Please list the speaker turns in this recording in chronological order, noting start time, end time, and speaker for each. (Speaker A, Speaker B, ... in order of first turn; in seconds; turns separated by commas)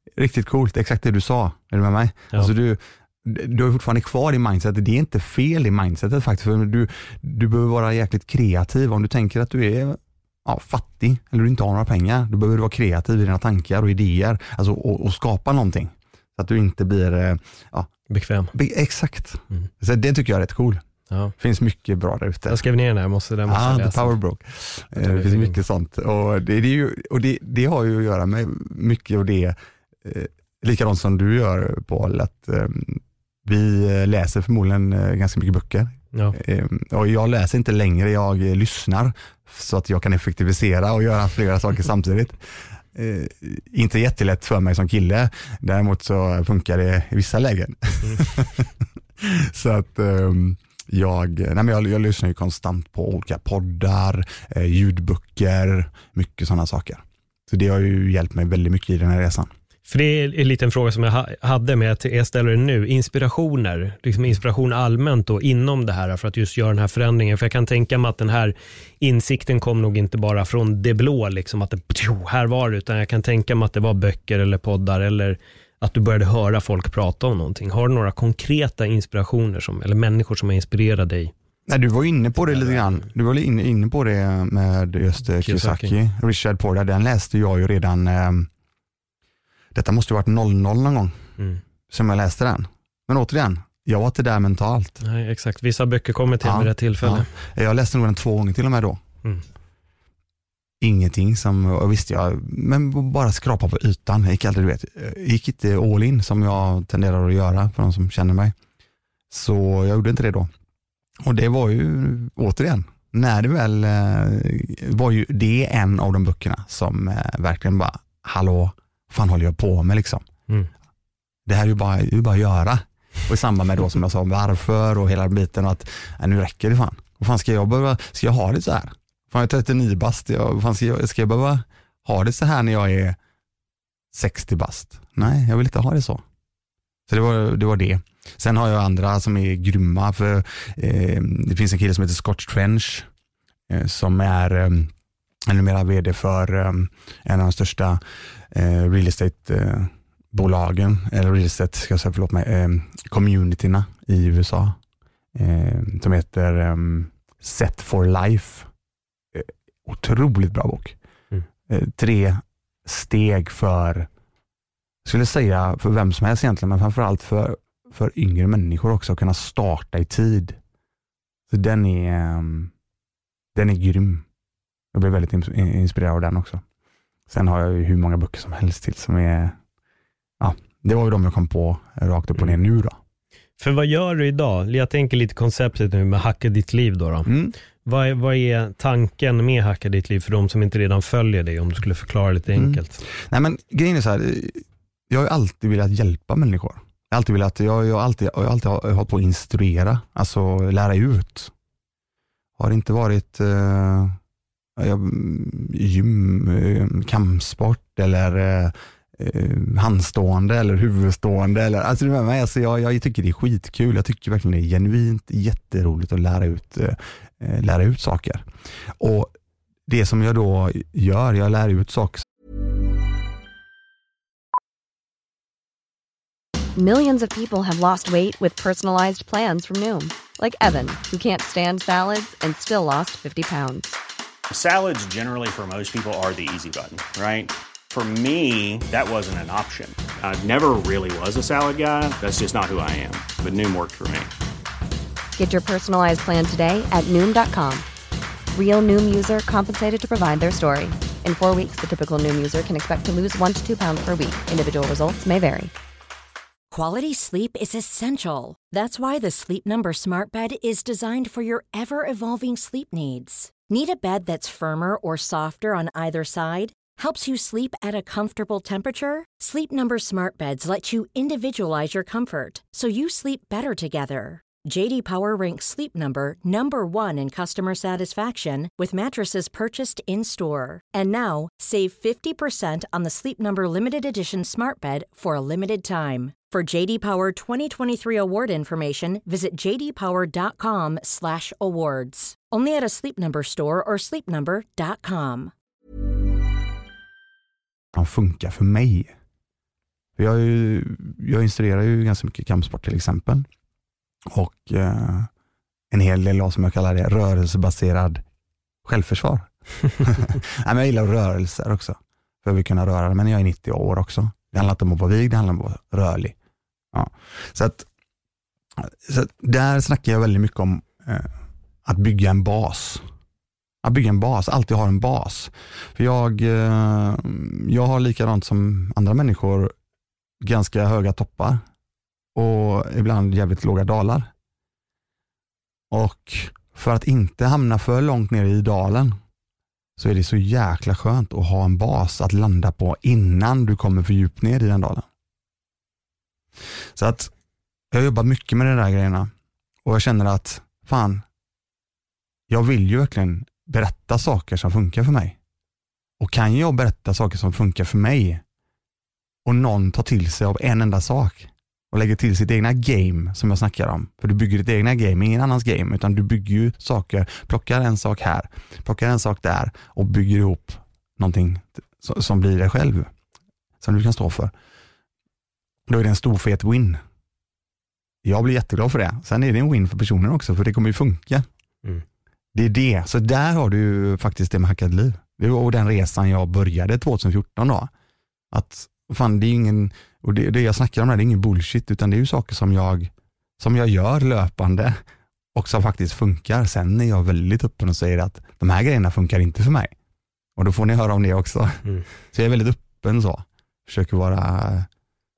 Speaker A: 0.1-17.9, Speaker B: 18.1-18.5, Speaker A: 18.5-20.8, Speaker A: 21.4-22.6, Speaker B: 22.5-24.1, Speaker A: 23.4-59.5, Speaker B: 24.9-25.6, Speaker B: 59.9-81.3, Speaker A: 81.7-88.5, Speaker B: 82.5-83.0, Speaker B: 85.4-85.9, Speaker A: 89.7-91.2, Speaker A: 91.9-95.0, Speaker B: 95.0-97.3, Speaker A: 96.4-99.0, Speaker A: 100.8-108.5, Speaker A: 109.3-110.5, Speaker A: 111.2-120.2, Speaker A: 121.5-133.2, Speaker A: 134.1-136.2, Speaker A: 137.1-143.1, Speaker A: 143.7-144.9, Speaker A: 145.5-154.8, Speaker A: 155.3-158.7, Speaker A: 159.3-160.9, Speaker A: 161.7-164.1, Speaker A: 165.1-170.6, Speaker A: 171.5-172.7, Speaker A: 173.6-174.2, Speaker A: 174.9-176.6, Speaker A: 177.3-179.6, Speaker A: 180.4-183.0, Speaker B: 183.6-187.3, Speaker A: 187.2-187.6, Speaker B: 187.8-193.0, Speaker A: 192.6-201.5, Speaker A: 202.6-204.2, Speaker A: 204.8-218.4, Speaker A: 219.0-219.3, Speaker A: 219.9-222.2, Speaker C: 226.8-234.0, Speaker D: 234.5-244.3, Speaker C: 245.4-247.8, Speaker C: 248.5-255.7, Speaker E: 256.7-295.5, Speaker A: 297.9-299.1, Speaker A: 300.2-303.5, Speaker A: 304.3-305.3, Speaker A: 305.9-308.2, Speaker A: 308.8-316.3, Speaker A: 316.9-317.9, Speaker A: 318.8-323.0, Speaker A: 323.8-329.7, Speaker A: 330.4-331.6, Speaker A: 332.3-334.3, Speaker A: 335.9-339.1, Speaker A: 340.0-345.1, Speaker A: 346.9-347.3, Speaker A: 347.9-349.3, Speaker A: 349.8-351.2, Speaker A: 352.5-355.4, Speaker A: 356.2-358.4, Speaker A: 359.4-373.1, Speaker A: 373.8-374.5, Speaker A: 375.9-377.0, Speaker A: 378.2-381.4, Speaker A: 382.5-387.9, Speaker A: 388.5-395.0, Speaker A: 395.5-399.9, Speaker A: 400.6-404.9